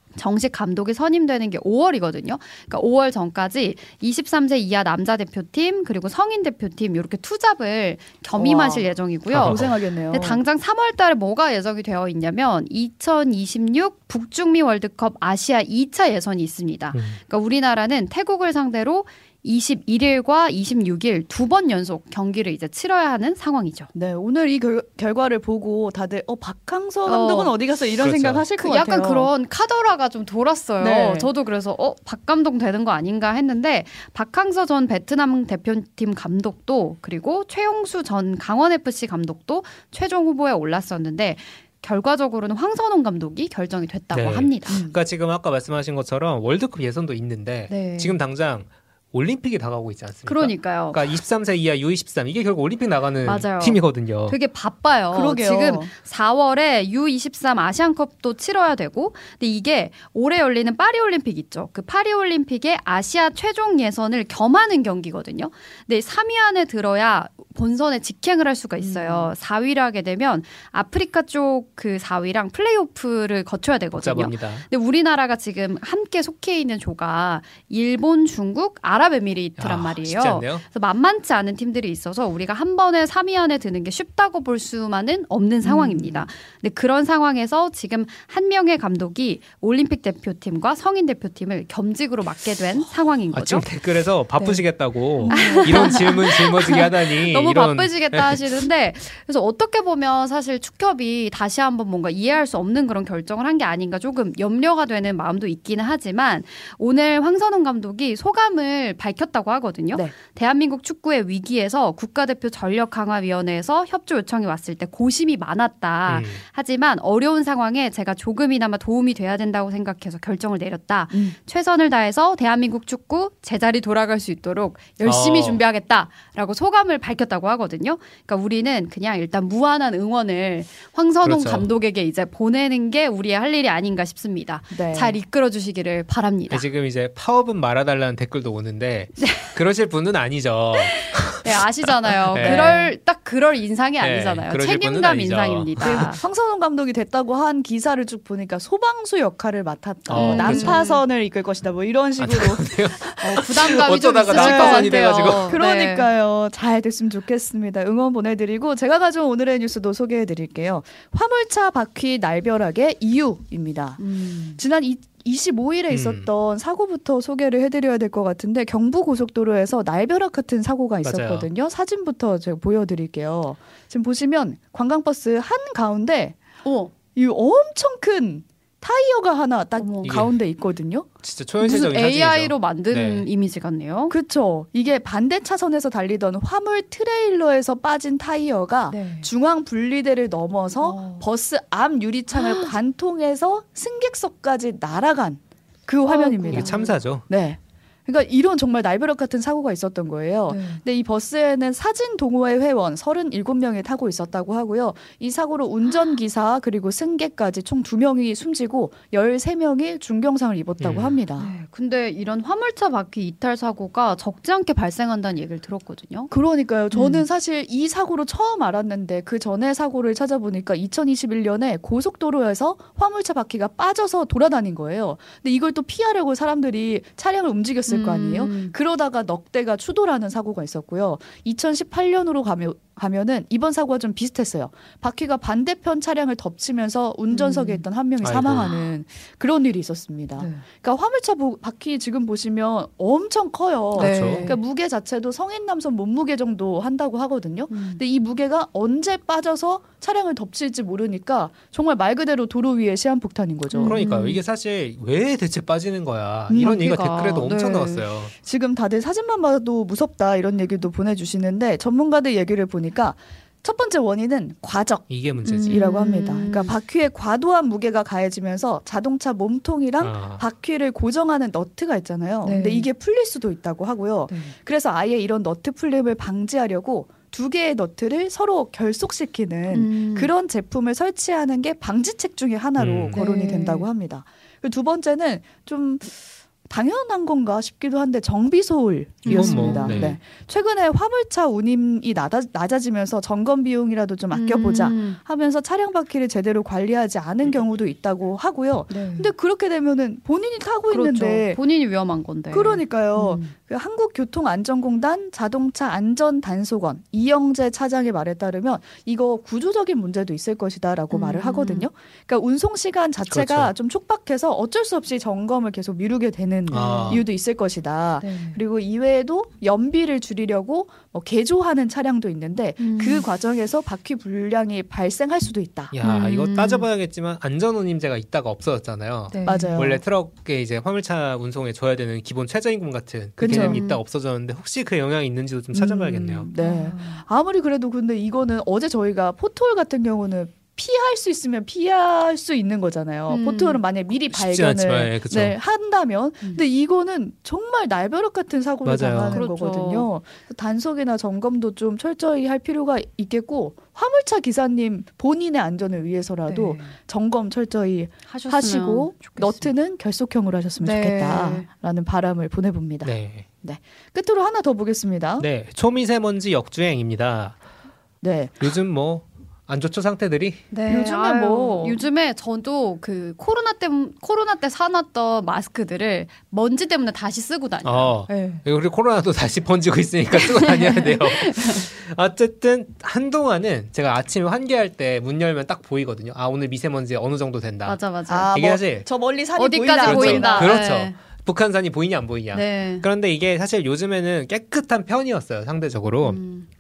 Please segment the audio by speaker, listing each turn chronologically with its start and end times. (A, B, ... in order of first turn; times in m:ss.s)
0:00.1-0:23.9 A
0:08.3-0:10.4 B
0:09.3-0:09.7 C
0:23.9-0:29.3 B
0:27.0-0:27.6 A
0:28.0-0:28.4 C
0:28.6-0:44.9 A
0:30.8-0:31.3 B
0:44.1-0:54.4 C
0:44.7-0:45.0 B
0:47.7-0:48.2 A
0:50.2-0:51.1 A
0:53.2-1:33.7 A
0:55.1-0:55.9 B
1:08.8-1:09.3 B
1:13.9-1:14.6 C
1:19.6-1:20.6 C
1:25.6-1:26.2 B
1:33.3-1:38.6 C
1:34.3-2:16.7 A
1:35.2-1:36.0 B
1:56.1-1:56.4 C
2:05.0-2:05.6 C
2:11.2-2:11.7 C
2:14.7-2:15.2 B
2:16.5-2:21.7 C
2:19.2-2:19.6 A
2:20.7-2:26.2 A
2:22.2-2:22.8 C
2:22.4-2:22.9 B
2:24.0-2:26.0 C
2:25.8-2:32.7 B
2:30.1-2:30.8 C
2:30.1-2:31.0 A
2:32.2-2:35.6 C
2:33.2-2:36.1 A
2:34.3-2:44.0 B
2:44.0-2:44.6 A
2:44.6-2:56.4 B
2:45.9-2:46.3 C
2:51.0-2:51.5 C
2:56.6-2:56.9 A
2:57.2-3:01.1 B
2:59.8-3:00.2 A
3:00.0-3:00.4 C
3:01.2-3:03.3 C
3:01.6-3:04.1 A
3:04.1-3:16.7 B
3:08.9-3:09.3 A
3:10.8-3:11.2 A
3:12.3-3:12.7 A
3:16.0-3:17.0 A
3:16.5-3:17.2 C
3:17.2-3:31.5 B
3:20.5-3:20.8 A
3:30.8-3:31.2 C
3:31.4-3:36.3 A
3:36.3-4:14.0 B
3:36.9-3:37.2 A
3:47.8-3:48.7 A
3:57.3-3:57.8 A
3:58.2-3:58.7 C
3:58.6-3:58.9 A
4:00.4-4:00.6 A
4:03.9-4:04.6 A
4:04.0-4:04.5 C
4:07.7-4:08.0 A
4:13.7-4:14.4 A
4:13.8-4:18.3 C
4:16.5-4:16.8 B
4:16.6-4:18.1 A
4:18.4-4:25.1 B
4:25.1-4:25.9 C
4:25.4-4:26.7 A
4:25.6-5:01.6 B
4:30.0-4:30.4 C
4:32.4-4:32.9 A
4:34.3-4:34.6 A
4:39.7-4:40.3 A
4:42.8-4:43.2 C
4:43.1-4:43.9 A
4:49.2-4:50.2 A
4:49.2-4:50.2 C
4:54.3-4:55.2 A
4:58.9-4:59.3 A
5:00.9-5:03.5 A
5:02.5-5:25.9 B
5:11.1-5:11.9 A
5:13.3-5:13.7 C
5:16.7-5:17.2 A
5:16.7-5:17.2 C
5:18.2-5:18.6 A
5:22.8-5:23.2 A
5:25.9-5:36.5 C
5:26.0-5:26.9 A
5:29.3-5:29.9 A
5:29.4-5:30.0 B
5:33.4-5:33.8 B
5:33.5-5:34.0 A
5:35.7-6:03.1 B
5:36.6-5:37.2 A
5:43.3-5:43.8 A
5:44.1-5:45.6 C
5:48.8-5:49.4 C
5:49.3-5:50.1 A
5:56.4-5:56.9 A
5:58.3-5:59.7 A
6:00.8-6:01.7 A
6:03.0-6:03.5 C
6:03.6-6:05.5 B
6:05.4-6:07.6 C
6:08.2-6:08.7 B
6:08.6-6:10.6 C
6:10.7-6:18.6 A
6:10.9-6:12.0 B
6:17.8-6:28.0 C
6:20.3-6:21.9 A
6:27.8-6:28.5 A
6:28.3-6:30.8 B
6:28.5-6:29.1 C
6:29.6-6:31.2 A
6:30.0-6:36.4 C
6:32.5-6:33.1 A
6:36.2-6:36.7 A